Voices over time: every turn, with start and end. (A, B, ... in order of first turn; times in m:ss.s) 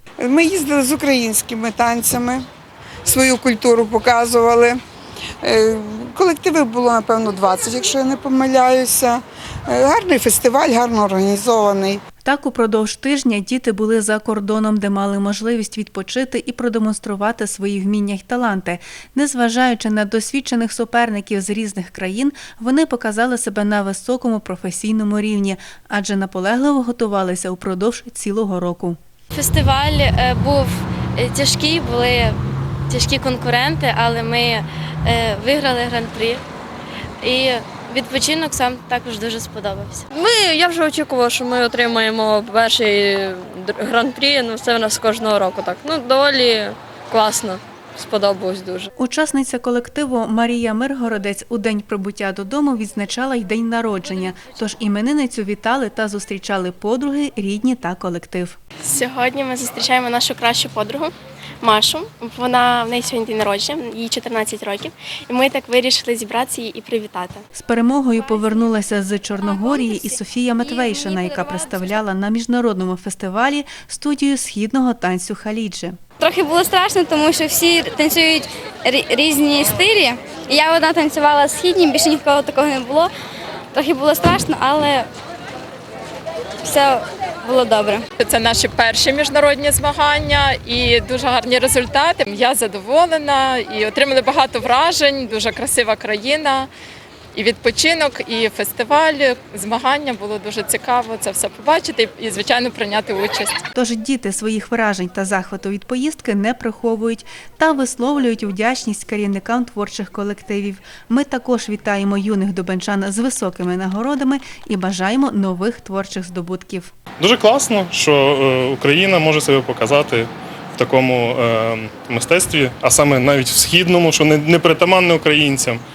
0:00.2-0:02.4 A
0:03.0-0:04.8 A
0:05.4-0:12.0 A
0:12.2-0:29.0 B
0:29.3-0:32.4 C
0:32.9-0:36.4 C
0:37.2-0:40.0 C
0:40.1-0:48.9 D
0:49.0-0:58.6 B
0:58.8-1:07.4 E
1:07.5-1:16.0 B
1:09.6-1:11.9 F
1:16.2-1:23.1 F
1:23.7-1:25.1 F
1:26.6-1:28.0 F
1:28.2-1:36.7 G
1:37.3-1:43.6 G
1:43.7-1:56.9 B
1:57.2-2:05.8 H